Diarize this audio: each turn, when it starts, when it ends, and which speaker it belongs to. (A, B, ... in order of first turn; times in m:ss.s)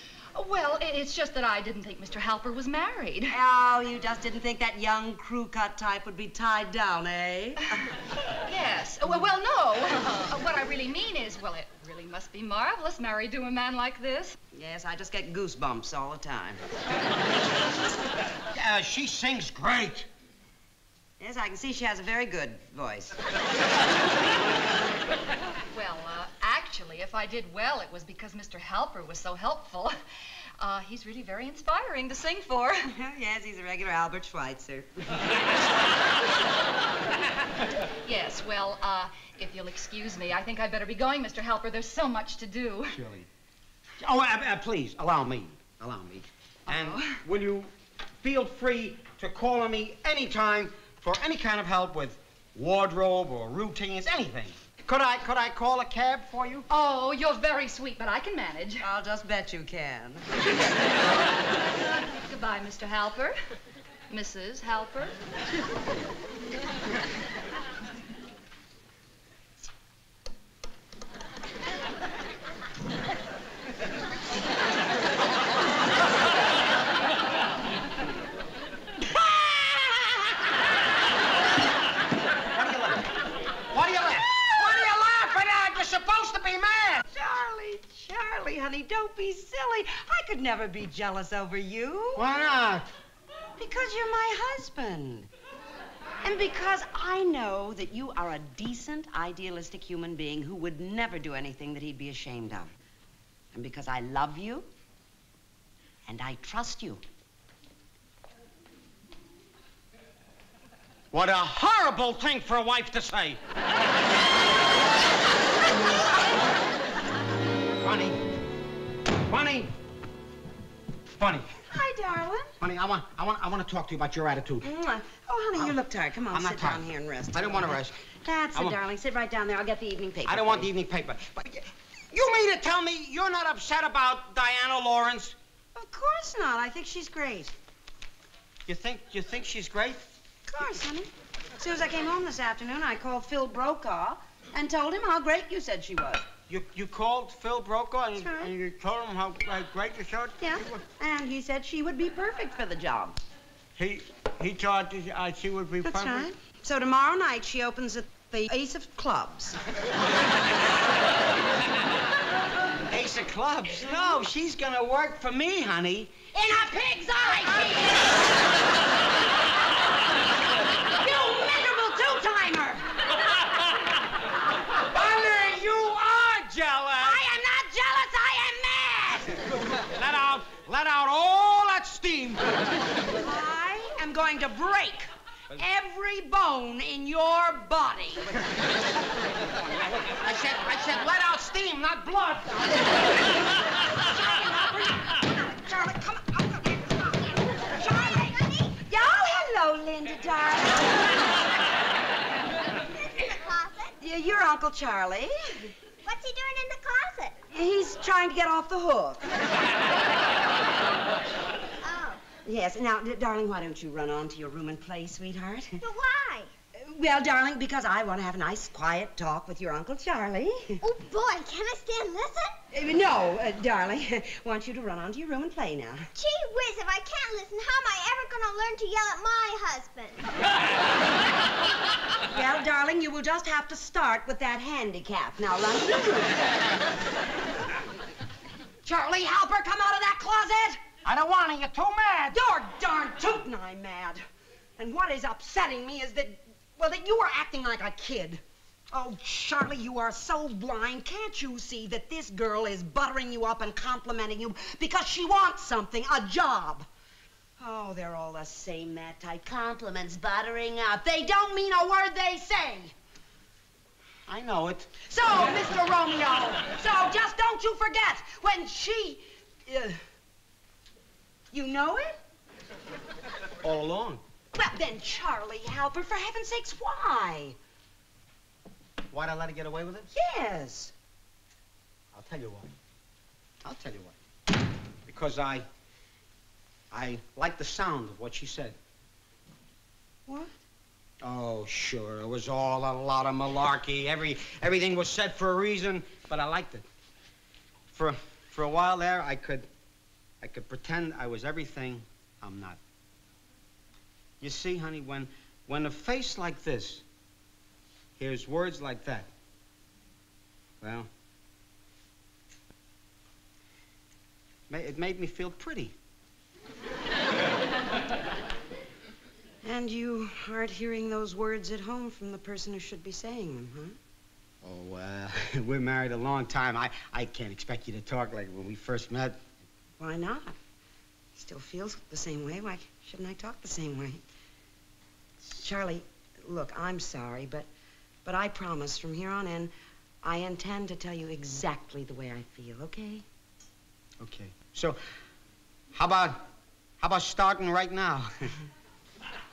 0:00.3-0:03.4 A
0:03.3-0:07.8 B
0:08.5-0:14.4 A
0:14.5-0:16.6 B
0:18.5-0:20.1 C
0:21.2-0:23.2 B
0:25.7-0:30.0 A
0:30.6-0:32.9 A
0:32.9-0:35.3 B
0:38.0-0:43.0 A
0:42.9-0:43.3 C
0:44.0-0:47.7 C
0:46.7-0:47.2 A
0:48.2-0:56.7 C
0:56.7-0:58.8 A
0:58.8-1:00.3 B
1:02.1-1:03.4 A
1:04.1-1:05.2 A
1:19.2-1:20.4 B
1:22.5-1:23.1 C
1:23.7-1:27.1 C
1:27.1-1:32.2 B
1:32.2-1:32.8 C
1:33.6-1:35.3 B
1:36.2-1:42.7 B
1:43.5-1:44.7 B
1:46.1-1:47.0 B
1:51.1-1:53.4 C
1:57.8-1:58.2 C
1:59.2-1:59.7 C
2:01.2-2:01.5 C
2:01.7-2:02.6 B
2:02.6-2:04.7 C
2:04.6-2:10.7 B
2:06.3-2:08.8 C
2:10.3-2:15.4 C
2:15.8-2:17.5 B
2:18.7-2:20.1 C
2:20.5-2:26.3 B
2:26.5-2:30.8 C
2:28.2-2:28.5 B
2:30.4-2:33.2 B
2:33.8-2:36.3 C
2:35.8-2:39.6 B
2:42.9-2:46.2 C
2:46.3-2:48.1 B
2:51.0-2:52.9 B
2:54.8-2:57.2 C
2:57.0-2:59.4 B
2:59.7-3:02.4 C
3:03.2-3:08.4 B
3:09.9-3:12.9 C
3:14.0-3:21.1 B
3:22.9-3:24.0 D
3:24.0-3:25.7 B
3:26.0-3:27.4 D
3:27.5-3:29.3 B
3:31.8-3:32.2 D
3:32.4-3:35.8 B
3:35.8-3:36.5 D
3:36.7-3:40.8 B
3:40.8-3:42.6 D
3:42.7-3:46.1 B
3:46.2-3:50.2 D
3:52.3-3:56.6 B
3:58.8-4:00.8 B
4:01.0-4:02.4 C
4:02.3-4:04.2 B
4:04.8-4:16.9 B
4:17.6-4:22.9 B
4:24.3-4:25.0 C
4:25.1-4:30.0 B
4:31.5-4:32.2 B
4:33.6-4:34.2 C
4:34.5-4:37.6 B
4:39.1-4:40.1 C
4:40.1-4:40.9 B
4:42.1-4:42.7 C
4:43.6-4:44.2 C
4:45.0-4:45.7 C
4:46.9-4:48.8 C
4:50.3-4:50.5 B
4:51.2-4:56.9 C
4:57.9-4:59.7 C
5:00.4-5:02.8 C
5:04.4-5:07.1 C
5:08.2-5:09.3 C
5:10.8-5:11.1 C
5:14.7-5:15.9 C
5:19.6-5:24.0 B
5:24.6-5:29.4 C
5:30.0-5:30.6 B
5:31.4-5:34.2 B
5:35.5-5:37.7 B
5:38.2-5:43.2 B
5:44.2-5:45.0 C
5:45.9-5:46.4 C
5:47.0-5:48.5 C